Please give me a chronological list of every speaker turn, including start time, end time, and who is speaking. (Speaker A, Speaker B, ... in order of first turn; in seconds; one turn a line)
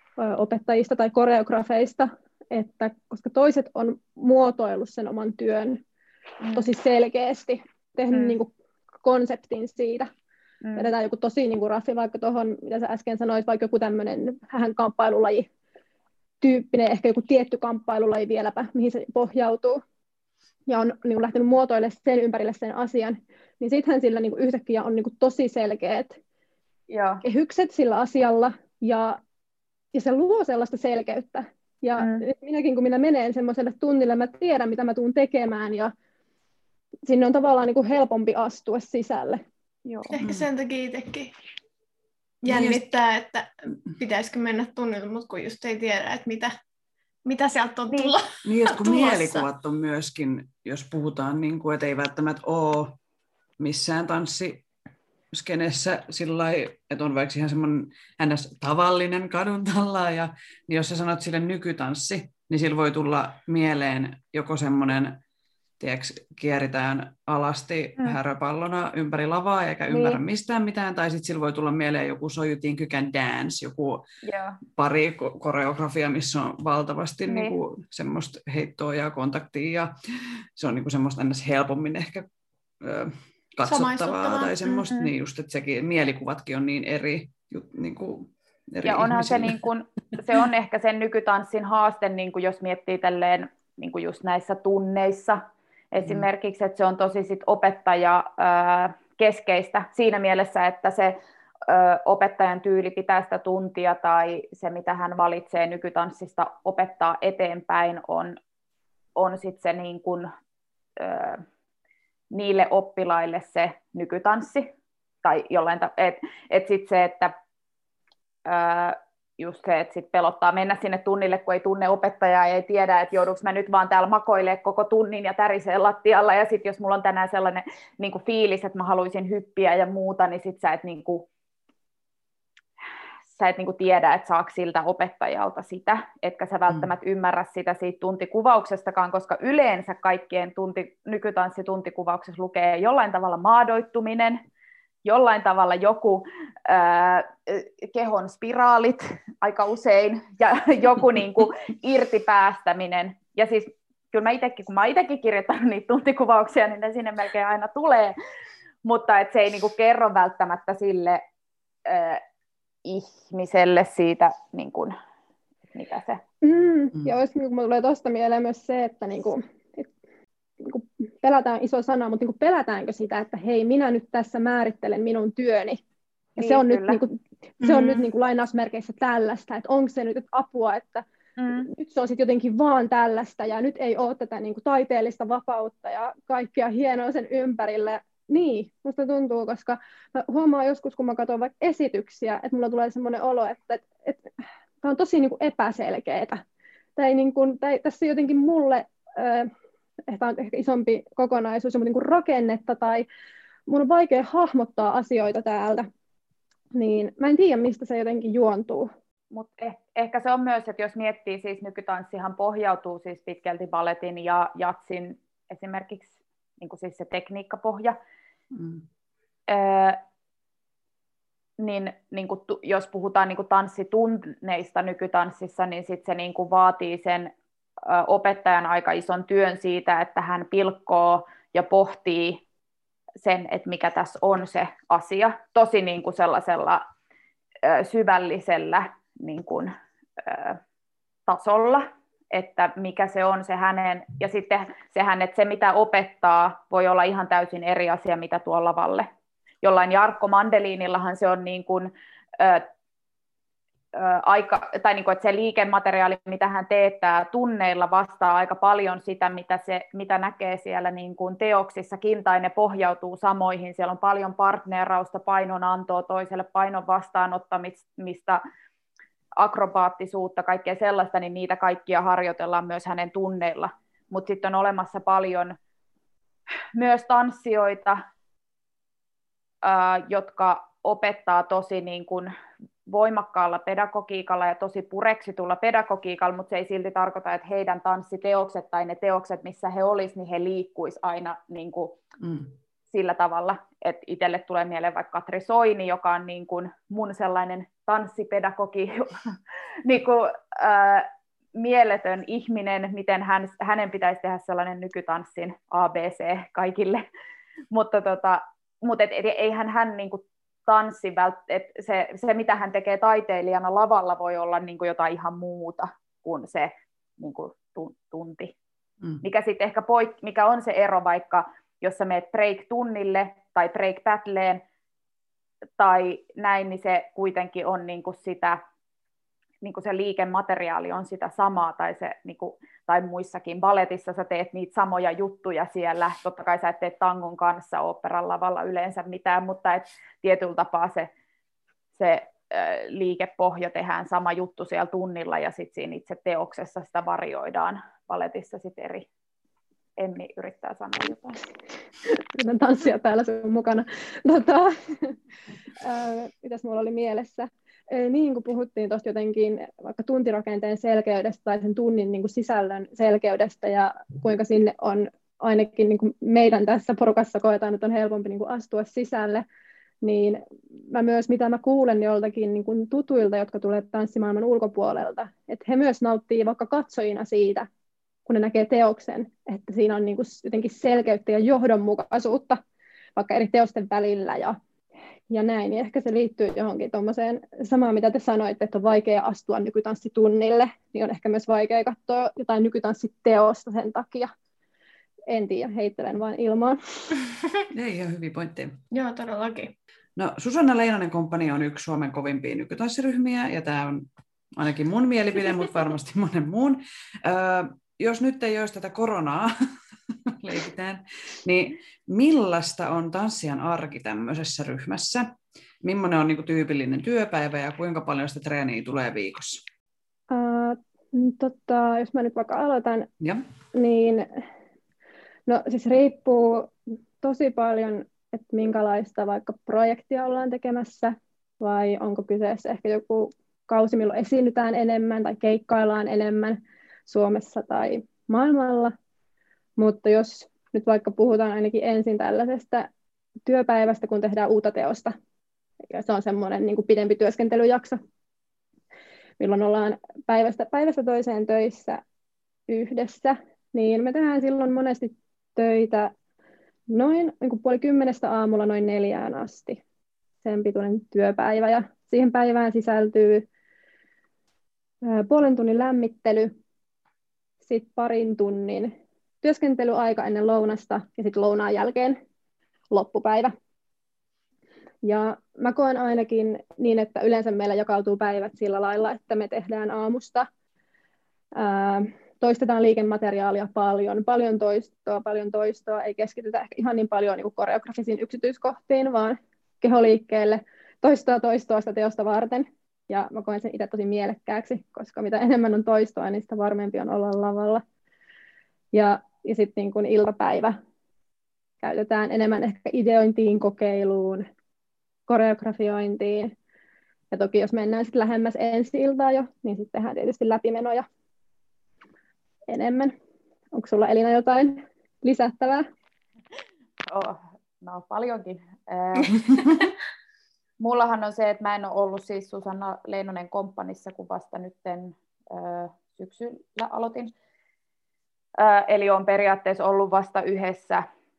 Speaker A: 0.2-5.8
Speaker B: 6.4-6.7
Speaker A: 6.5-8.5
Speaker B: 8.1-8.4
Speaker A: 9.0-10.1
Speaker B: 10.6-10.9
Speaker A: 10.8-15.5
Speaker A: 16.4-19.8
Speaker A: 20.7-26.2
Speaker B: 26.9-27.2
Speaker A: 27.2-29.2
Speaker A: 29.9-35.9
Speaker B: 32.0-32.2
Speaker A: 37.1-39.4
Speaker B: 39.9-40.1
Speaker C: 40.1-41.3
Speaker D: 40.2-40.5
Speaker C: 42.4-46.5
Speaker D: 42.5-42.8
Speaker C: 47.2-49.4
Speaker D: 48.4-53.0
Speaker D: 53.6-54.6
Speaker D: 55.3-65.2
Speaker D: 65.8-74.1
Speaker B: 69.9-70.2
Speaker B: 74.2-74.6
Speaker D: 74.8-80.0
Speaker B: 77.3-77.5
Speaker D: 80.6-82.3
Speaker D: 82.8-89.6
Speaker C: 83.7-84.8
Speaker B: 88.8-95.4
Speaker B: 95.9-108.4
Speaker D: 96.0-96.3
Speaker B: 109.2-110.3
Speaker B: 111.0-111.4
Speaker B: 112.3-114.7
Speaker B: 115.2-117.3
Speaker B: 118.5-131.3
Speaker B: 133.3-144.4
Speaker B: 145.1-158.2
Speaker B: 158.8-161.2
Speaker B: 161.9-162.2
Speaker B: 162.8-164.9
Speaker B: 165.8-166.2
Speaker A: 166.4-169.9
Speaker A: 170.6-175.8
Speaker B: 176.4-177.0
Speaker A: 176.4-181.1
Speaker B: 177.6-178.0
Speaker B: 181.4-181.7
Speaker A: 181.6-194.2
Speaker A: 194.8-196.4
Speaker A: 197.0-199.5
Speaker A: 200.1-203.1
Speaker A: 203.7-205.9
Speaker A: 206.8-208.9
Speaker B: 209.3-218.0
Speaker D: 218.5-218.8
Speaker B: 219.5-220.0
Speaker B: 221.6-227.3
Speaker B: 227.8-232.4
Speaker B: 233.2-236.8
Speaker B: 237.6-240.6
Speaker B: 241.3-249.1
Speaker B: 249.6-252.7
Speaker B: 253.9-268.4
Speaker B: 269.4-275.6
Speaker B: 276.8-278.0
Speaker B: 279.6-282.3
Speaker B: 282.9-292.0
Speaker D: 292.2-292.5
Speaker B: 292.9-299.1
Speaker B: 299.9-307.1
Speaker B: 307.7-318.5
Speaker B: 319.2-324.6
Speaker B: 325.8-328.6
Speaker B: 329.6-341.1
Speaker B: 342.0-349.1
Speaker B: 350.0-351.4
Speaker A: 352.1-355.1
Speaker A: 355.8-369.4
Speaker A: 370.0-377.7
Speaker A: 378.3-382.6
Speaker A: 383.2-384.6
Speaker A: 385.3-394.3
Speaker A: 395.3-396.8
Speaker D: 397.7-398.8
Speaker C: 398.9-399.7
Speaker D: 400.2-409.5
Speaker D: 410.3-419.6
Speaker A: 420.3-423.1
Speaker D: 423.2-423.4
Speaker A: 423.7-424.3
Speaker A: 425.5-438.9
Speaker A: 439.8-442.9
Speaker A: 443.5-445.1
Speaker A: 445.9-448.0
Speaker A: 449.4-452.0
Speaker A: 452.7-456.1
Speaker A: 456.9-459.8
Speaker A: 460.4-463.5
Speaker A: 465.0-466.5
Speaker A: 467.6-472.2
Speaker A: 472.9-473.5
Speaker A: 475.0-480.5
Speaker A: 481.6-497.8
Speaker A: 498.9-500.8
Speaker A: 501.8-504.5
Speaker A: 505.3-506.5
Speaker A: 507.3-511.1
Speaker A: 512.7-513.1
Speaker A: 513.7-515.9
Speaker B: 517.1-519.9
Speaker B: 520.8-527.3
Speaker B: 528.6-531.0